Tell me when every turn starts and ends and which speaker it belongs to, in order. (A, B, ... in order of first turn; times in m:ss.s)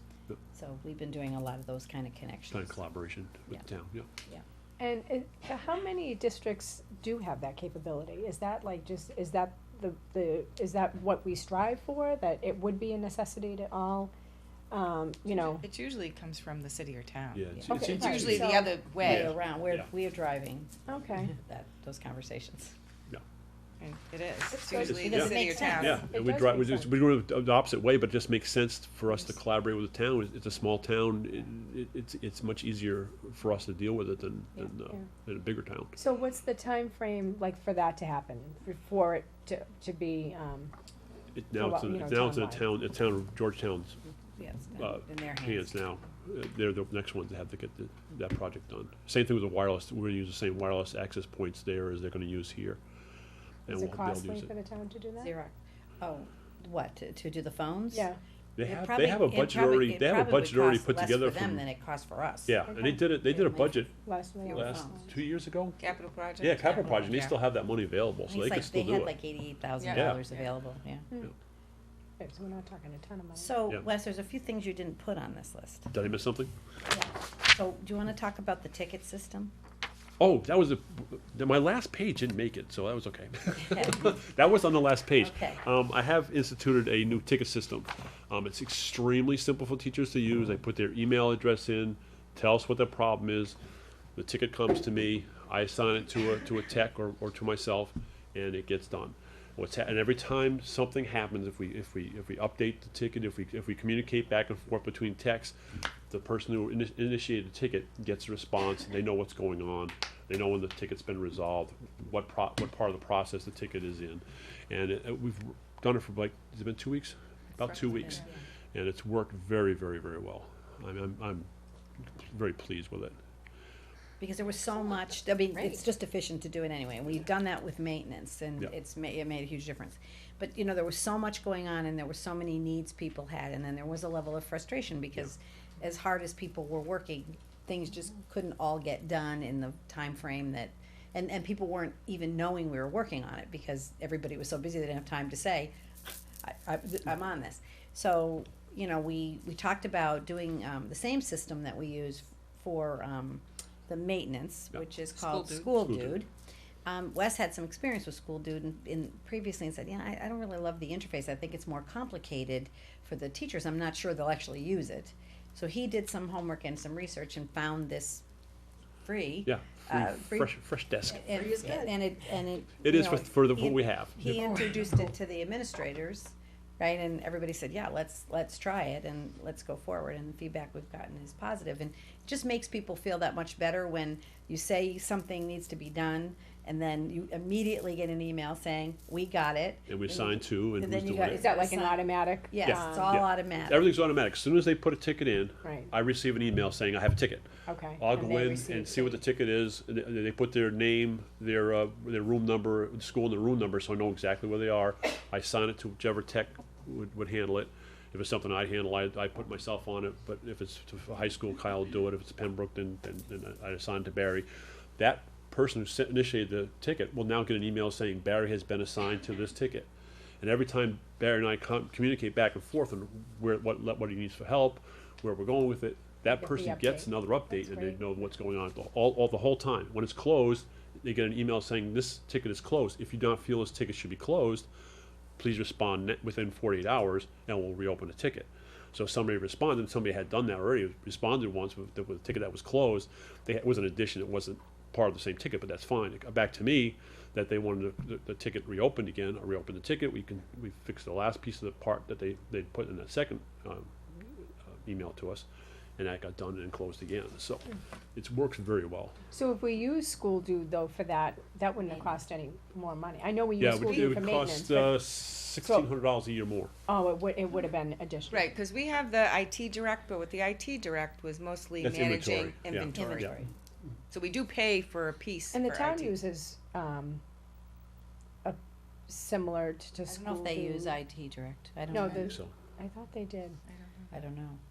0:00.5-0:02.8 A
0:02.5-0:04.1 B
0:04.8-0:14.1 C
0:14.7-0:15.6 C
0:15.3-0:19.3 D
0:17.3-0:19.9 B
0:17.6-0:22.7 A
0:17.7-0:18.7 C
0:20.9-0:21.3 C
0:23.8-0:26.0 D
0:24.5-0:26.9 C
0:24.7-0:26.0 A
0:24.8-0:35.9 B
0:36.0-0:40.7 C
0:41.3-0:44.0 B
0:41.6-0:42.6 C
0:44.4-0:45.8 A
0:44.8-0:52.8 B
0:53.7-0:54.5 B
0:53.7-0:55.3 C
0:55.2-0:58.1 A
0:58.6-1:01.6 B
0:58.6-1:03.9 A
1:02.5-1:03.9 B
1:04.0-1:05.0 C
1:04.4-1:05.0 A
1:04.5-1:05.8 B
1:05.8-1:07.4 D
1:06.4-1:09.1 B
1:08.3-1:11.1 A
1:09.8-1:10.5 D
1:09.9-1:10.2 B
1:12.2-1:13.6 C
1:13.4-1:15.9 A
1:15.9-1:16.5 B
1:16.9-1:19.5 A
1:20.2-1:33.6 B
1:23.6-1:24.1 A
1:25.2-1:25.6 A
1:34.2-1:58.2 B
1:58.7-2:01.5 B
2:02.0-2:03.1 B
2:04.2-2:25.7 A
2:26.4-2:36.3 A
2:35.2-2:35.7 D
2:35.8-2:36.2 B
2:36.8-2:48.2 A
2:49.0-2:50.5 A
2:49.4-2:51.4 B
2:51.1-3:13.9 A
2:52.8-2:54.5 B
3:09.9-3:11.4 B
3:11.3-3:13.2 C
3:12.6-3:17.4 B
3:15.6-3:15.9 C
3:17.7-3:18.0 C
3:18.0-3:34.5 B
3:18.1-3:19.2 A
3:35.0-3:39.9 B
3:40.4-3:54.7 B
3:46.3-3:48.0 C
3:55.4-4:15.4 B
4:16.0-4:19.2 B
4:19.3-4:25.0 C
4:23.6-4:26.7 B
4:23.7-4:24.4 D
4:26.9-4:28.4 C
4:28.3-4:33.4 D
4:31.8-4:33.3 B
4:32.9-4:33.5 A
4:34.1-4:36.1 D
4:35.5-4:37.2 C
4:38.4-4:40.9 C
4:40.1-4:42.4 A
4:41.9-4:43.6 C
4:42.2-4:42.5 B
4:43.7-4:44.1 D
4:44.1-4:44.6 A